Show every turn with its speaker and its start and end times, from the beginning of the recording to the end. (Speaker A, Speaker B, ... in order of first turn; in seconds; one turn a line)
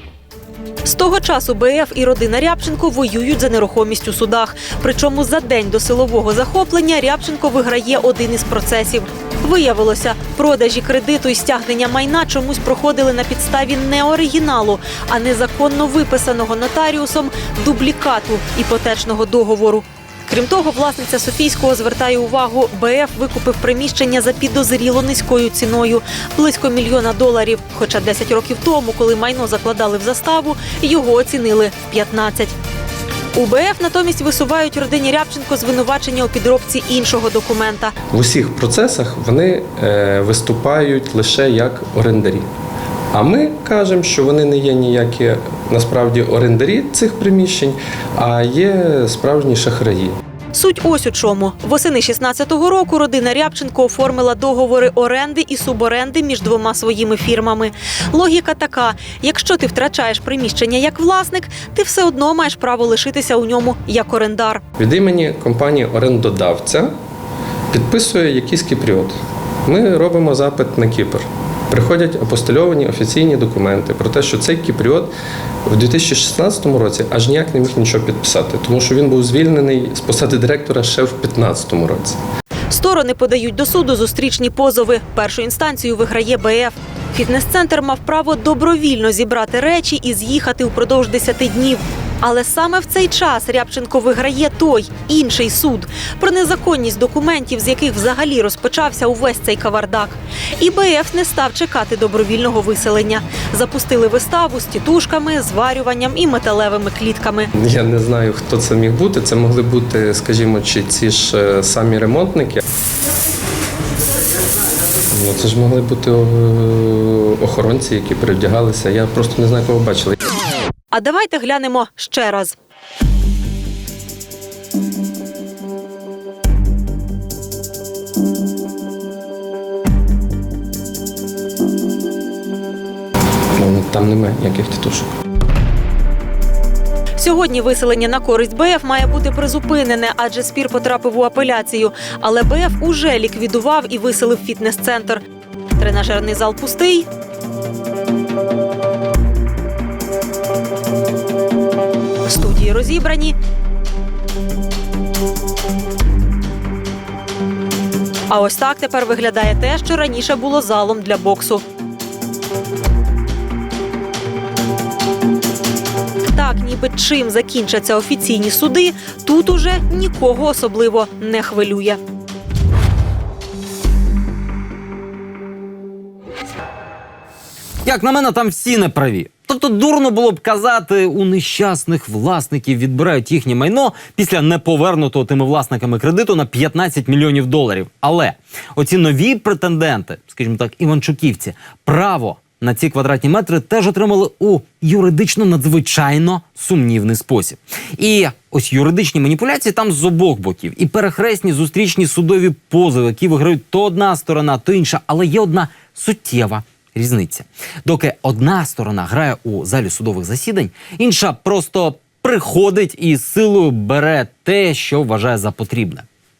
Speaker A: 0.8-32.5
Speaker A: 33.3-37.9
Speaker B: 38.1-42.5
Speaker B: 43.1-50.1
Speaker A: 50.5-64.6
Speaker B: 64.8-66.9
Speaker B: 67.7-75.1
Speaker B: 75.7-82.2
Speaker A: 82.7-107.5
Speaker B: 107.6-112.6
Speaker B: 115.1-120.2
Speaker A: 120.9-122.5
Speaker B: 133.6-135.1
Speaker A: 137.2-145.2
Speaker A: 145.8-147.1
Speaker A: 152.2-153.3
Speaker A: 158.3-161.6
Speaker A: 166.3-172.0
Speaker C: 177.8-216.0